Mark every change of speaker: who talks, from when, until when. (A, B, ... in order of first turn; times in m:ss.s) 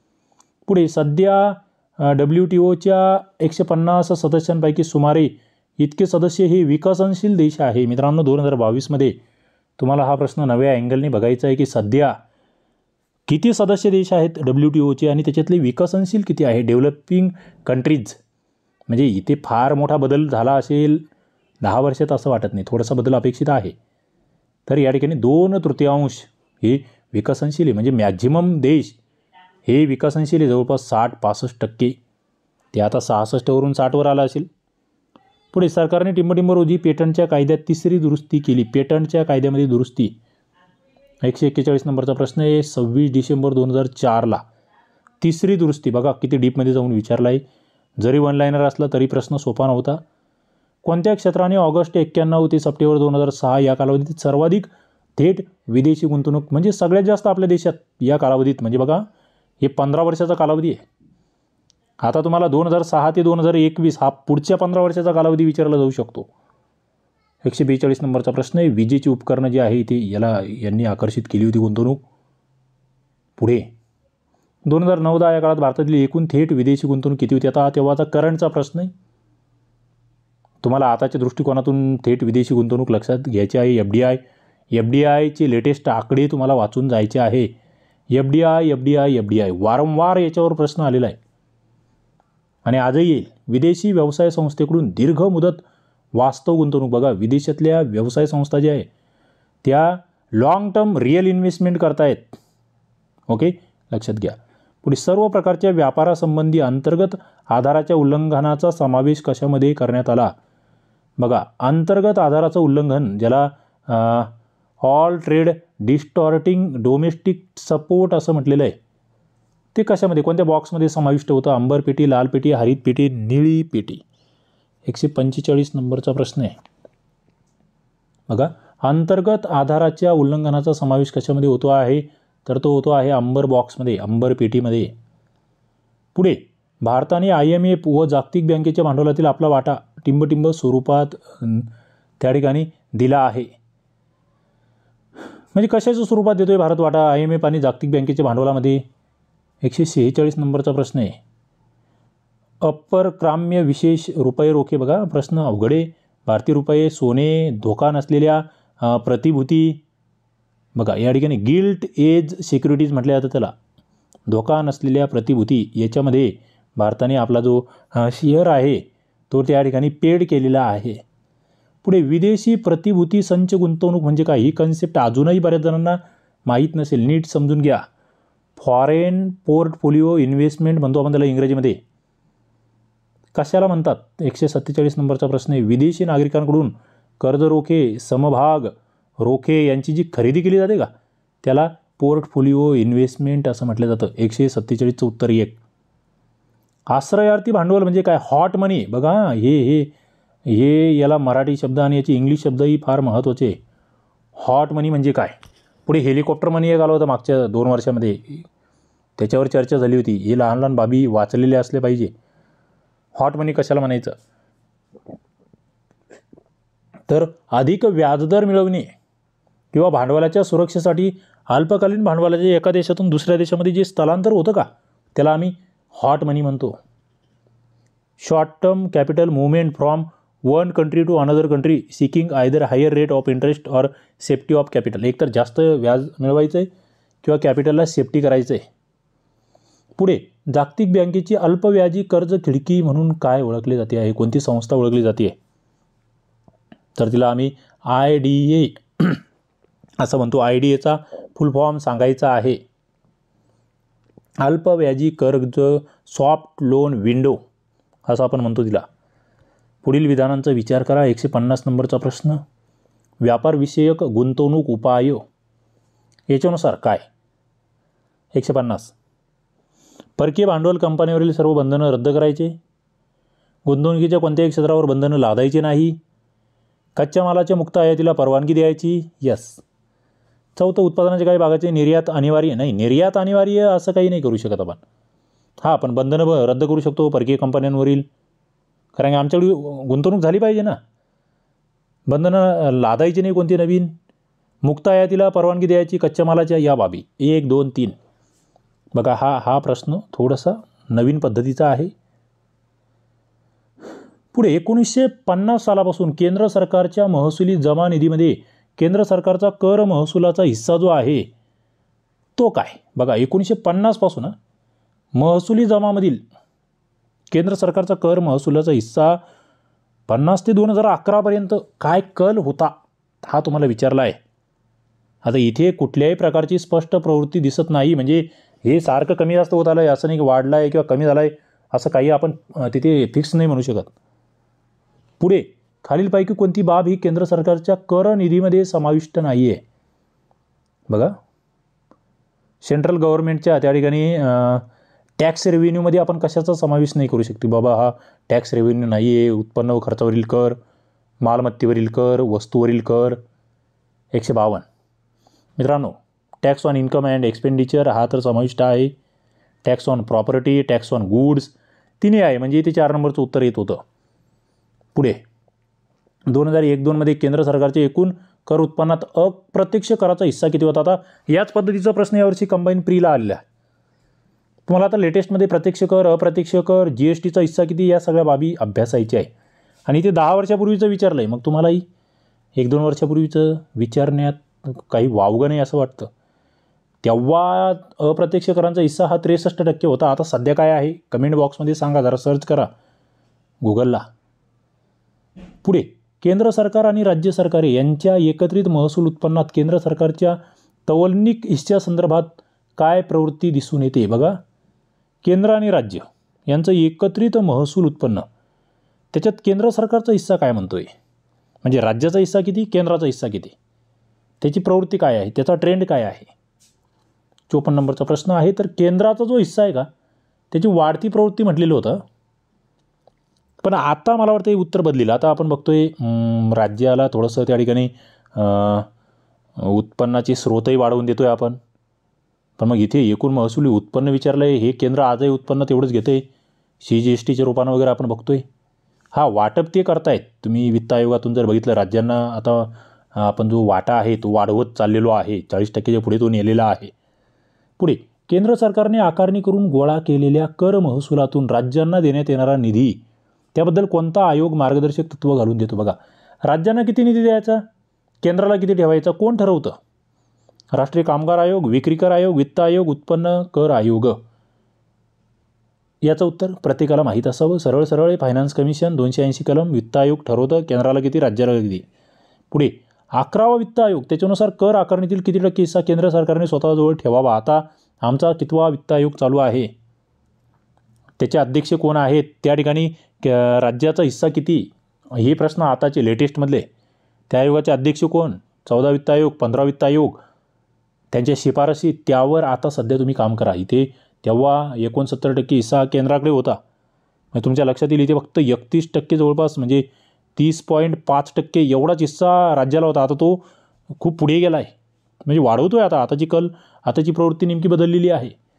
0:00.6-0:09.2 A
0:09.8-0:12.2 A
0:13.3-0:18.2 A
0:18.9-0:21.0 A
0:21.6-0:23.8 A
0:24.7-0:29.0 A
0:29.6-0:32.0 A
0:32.7-0:34.5 A
0:35.5-0:40.2 A
0:41.2-0:44.4 A
0:45.2-0:47.4 A
0:48.0-0:50.0 A
0:50.8-0:59.1 A
0:59.6-1:00.8 A
1:02.0-1:06.3 A
1:07.4-1:12.0 A
1:13.4-1:13.7 A
1:14.6-1:18.9 A
1:20.6-1:24.2 A
1:24.7-1:27.5 A
1:28.1-1:31.2 A
1:32.6-1:38.9 A
1:39.6-1:42.4 A
1:43.3-1:50.3 A
1:51.2-1:58.8 A
1:59.7-2:04.0 A
2:04.8-2:06.5 A
2:08.3-2:14.9 A
2:16.1-2:23.5 A
2:25.5-2:28.8 A
2:29.6-2:31.2 A
2:32.6-2:39.8 A
2:40.7-2:43.5 A
2:44.3-2:51.0 A
2:51.8-2:57.8 A
2:58.6-3:01.8 A
3:03.3-3:10.9 A
3:11.4-3:15.6 A
3:16.9-3:19.9 A
3:20.4-3:23.6 A
3:24.4-3:28.4 A
3:29.2-3:32.1 A
3:33.2-3:34.1 A
3:37.1-3:38.9 A
3:39.7-3:46.8 A
3:48.2-3:56.7 A
3:57.2-3:58.6 A
4:00.0-4:05.4 A
4:06.9-4:09.2 A
4:10.0-4:12.6 A
4:14.4-4:17.4 A
4:18.0-4:18.8 A
4:19.8-4:22.4 A
4:23.2-4:25.2 A
4:26.3-4:27.0 A
4:28.3-4:28.9 A
4:30.2-4:32.6 A
4:33.6-4:36.0 A
4:37.0-4:39.6 A
4:40.6-4:44.8 A
4:45.6-4:48.1 A
4:49.0-4:50.8 A
4:52.1-4:53.9 A
4:54.6-4:58.0 A
4:58.9-5:01.9 A
5:04.3-5:11.3 A
5:12.4-5:14.4 A
5:15.1-5:16.2 A
5:17.3-5:19.2 A
5:20.1-5:24.2 A
5:25.2-5:33.9 A
5:35.2-5:39.6 A
5:40.9-5:41.2 A
5:42.6-5:44.6 A
5:45.2-5:50.6 A
5:51.2-5:53.2 A
5:54.1-5:54.6 A
5:55.6-5:58.9 A
5:59.6-6:03.8 A
6:04.9-6:05.2 A
6:06.3-6:13.4 A
6:14.6-6:19.3 A
6:19.8-6:21.8 A
6:22.6-6:26.1 A
6:27.0-6:32.7 A
6:33.6-6:34.0 A
6:35.6-6:44.4 A
6:45.2-6:48.2 A
6:49.1-6:50.9 A
6:51.6-6:53.5 A
6:54.4-6:56.3 A
6:57.5-6:59.9 A
7:00.5-7:02.0 A
7:03.6-7:08.9 A
7:09.6-7:11.6 A
7:12.6-7:16.2 A
7:16.8-7:18.4 A
7:19.1-7:26.9 A
7:27.8-7:33.0 A
7:33.5-7:37.6 A
7:38.2-7:39.8 A
7:40.7-7:44.2 A
7:46.0-7:51.8 A
7:52.5-7:59.7 A
8:01.2-8:06.7 A
8:07.3-8:10.2 A
8:11.1-8:16.6 A
8:17.3-8:23.4 A
8:24.0-8:24.7 A
8:25.2-8:28.3 A